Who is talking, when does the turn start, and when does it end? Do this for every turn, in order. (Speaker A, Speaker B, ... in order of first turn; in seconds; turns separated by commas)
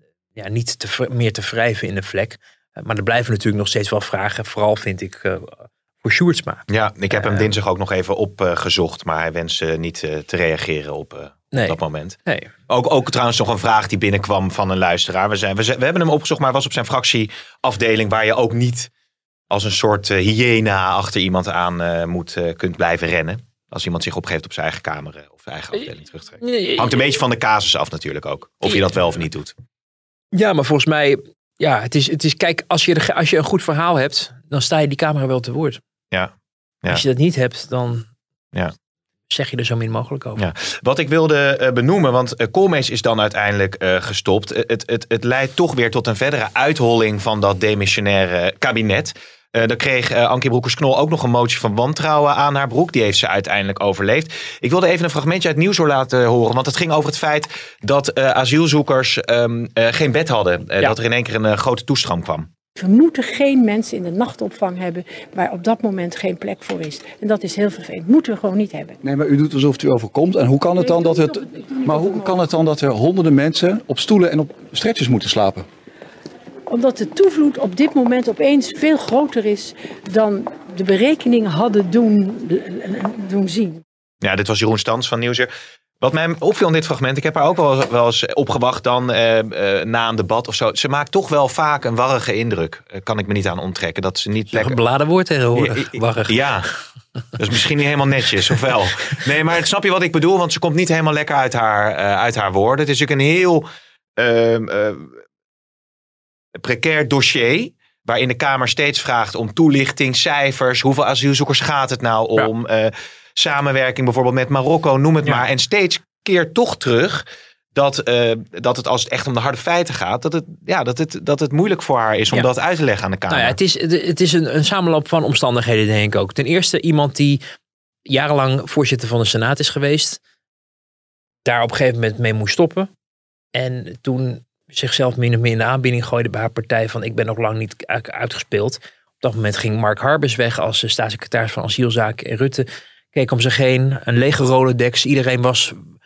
Speaker A: 0.4-7.5, Speaker B: 6.7-12.2, Speaker A: 11.5-12.5, Speaker B: 12.7-18.9, Speaker B: 19.5-29.5, Speaker A: 26.4-27.2, Speaker A: 30.3-35.8, Speaker B: 36.1-37.0, Speaker A: 36.9-38.1, Speaker A: 39.3-40.4, Speaker B: 40.4-62.5, Speaker C: 62.8-69.0, Speaker D: 69.0-75.7, Speaker C: 70.8-72.4, Speaker C: 76.7-83.8, Speaker B: 84.2-94.8, Speaker A: 94.5-96.4, Speaker B: 95.5-96.7, Speaker B: 97.4-103.7, Speaker B: 104.2-105.2, Speaker B: 106.6-123.6, Speaker A: 123.3-127.4, Speaker A: 128.1-130.2, Speaker A: 131.4-132.9, Speaker A: 133.6-145.8